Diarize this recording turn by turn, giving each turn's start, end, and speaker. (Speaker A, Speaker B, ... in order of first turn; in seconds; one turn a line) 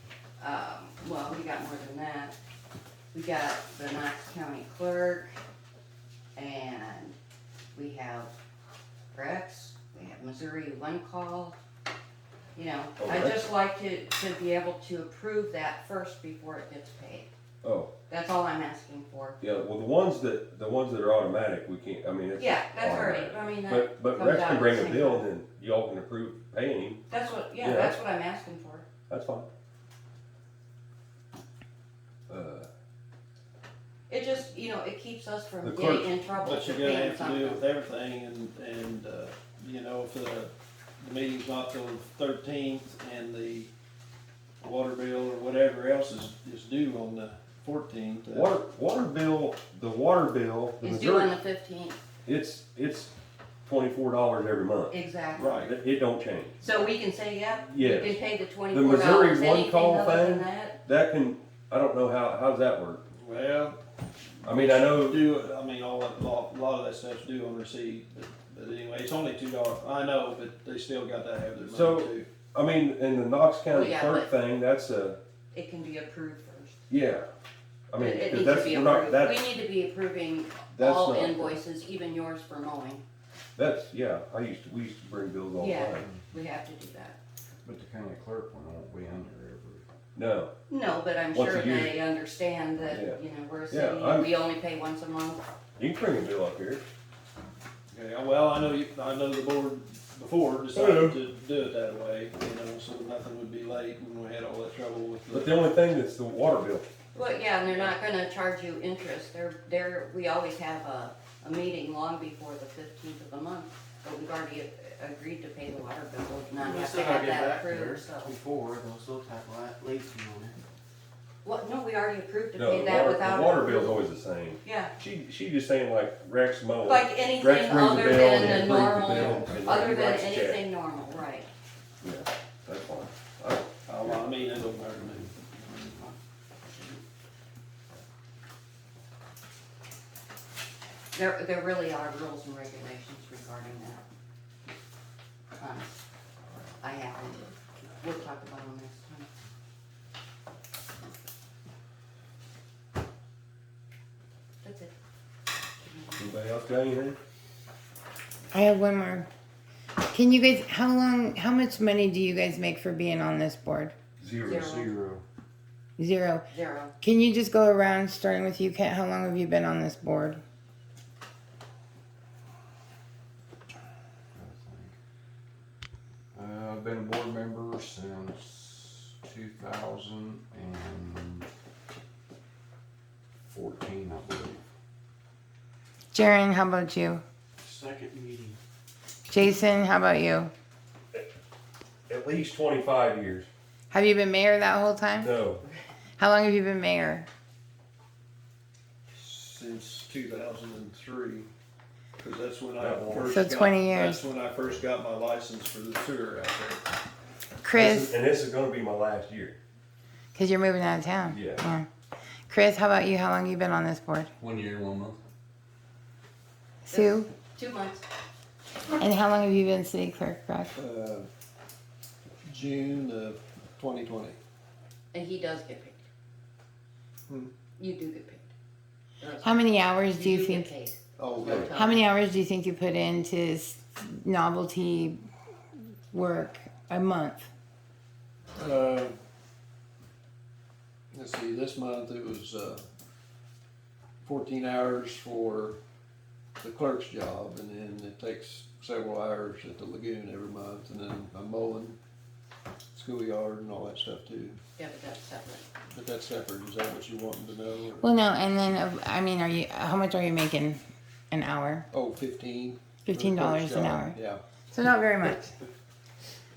Speaker A: 0.4-2.4
Speaker A: 3.1-5.4
Speaker A: 6.3-7.2
Speaker A: 7.7-8.3
Speaker A: 9.1-11.6
Speaker A: 12.6-17.3
Speaker B: 13.0-13.4
Speaker B: 17.6-17.9
Speaker A: 18.1-19.4
Speaker B: 19.4-27.0
Speaker A: 22.4-25.2
Speaker A: 27.1-28.9
Speaker B: 27.6-28.0
Speaker B: 29.1-29.5
Speaker B: 32.3-32.7
Speaker A: 34.1-37.6
Speaker B: 35.6-36.1
Speaker C: 36.4-43.7
Speaker C: 44.6-48.5
Speaker B: 48.3-51.4
Speaker A: 50.8-52.0
Speaker B: 52.3-53.1
Speaker B: 53.7-55.0
Speaker A: 54.9-55.6
Speaker C: 55.4-55.7
Speaker B: 55.5-56.6
Speaker A: 56.6-60.8
Speaker B: 57.7-63.0
Speaker C: 63.2-63.8
Speaker C: 64.4-72.3
Speaker B: 64.4-65.2
Speaker B: 71.7-75.2
Speaker A: 73.7-74.3
Speaker A: 75.5-76.8
Speaker B: 76.9-77.3
Speaker B: 77.9-79.5
Speaker A: 78.0-83.0
Speaker B: 80.7-81.6
Speaker B: 83.6-86.1
Speaker A: 85.6-87.2
Speaker D: 87.6-89.9
Speaker B: 90.2-90.5
Speaker A: 90.7-95.5
Speaker B: 91.3-92.0
Speaker B: 92.9-93.2
Speaker B: 93.7-94.3
Speaker B: 95.8-96.8
Speaker C: 97.9-105.7
Speaker B: 100.8-101.2
Speaker B: 105.3-106.9
Speaker A: 107.1-118.3
Speaker E: 116.6-120.6
Speaker A: 121.4-124.1
Speaker B: 122.6-130.6
Speaker A: 124.6-124.9
Speaker A: 126.8-131.5
Speaker B: 132.0-134.3
Speaker C: 133.9-136.0
Speaker A: 141.1-144.0
Speaker A: 145.6-146.0
Speaker A: 146.8-147.5
Speaker A: 148.0-149.3
Speaker A: 154.6-154.9
Speaker A: 155.8-156.3
Speaker B: 156.2-157.2
Speaker F: 158.5-159.3
Speaker F: 160.1-164.0
Speaker B: 164.2-164.7
Speaker A: 164.5-164.9
Speaker D: 164.5-165.2
Speaker F: 166.0-166.5
Speaker A: 166.5-166.9
Speaker F: 167.0-170.4
Speaker D: 174.3-174.9
Speaker D: 176.3-181.5
Speaker D: 183.5-184.6
Speaker F: 186.1-187.2
Speaker E: 187.6-188.6
Speaker F: 189.3-190.5
Speaker B: 192.1-193.5
Speaker F: 193.9-195.3
Speaker B: 195.2-195.6
Speaker F: 196.2-197.3
Speaker C: 199.1-201.5
Speaker C: 202.2-206.9
Speaker B: 202.8-203.4
Speaker F: 203.2-204.2
Speaker F: 207.6-208.2
Speaker B: 207.7-209.6
Speaker F: 210.3-211.9
Speaker B: 211.3-211.7
Speaker F: 212.5-214.3
Speaker D: 214.4-215.2
Speaker F: 216.8-217.3
Speaker A: 216.9-218.1
Speaker F: 219.0-220.8
Speaker C: 220.8-221.3
Speaker C: 222.4-224.4
Speaker A: 225.1-226.1
Speaker A: 227.8-228.5
Speaker A: 229.2-232.0
Speaker F: 229.4-230.7
Speaker C: 231.2-231.7
Speaker F: 231.7-235.2
Speaker F: 236.1-237.5
Speaker C: 238.6-239.2
Speaker C: 241.1-242.8
Speaker C: 244.2-245.8
Speaker C: 246.6-252.0
Speaker C: 252.9-254.6
Speaker A: 254.8-255.7
Speaker C: 255.9-258.0
Speaker F: 258.0-261.9
Speaker C: 261.9-264.4
Speaker F: 263.1-264.2
Speaker F: 264.7-265.6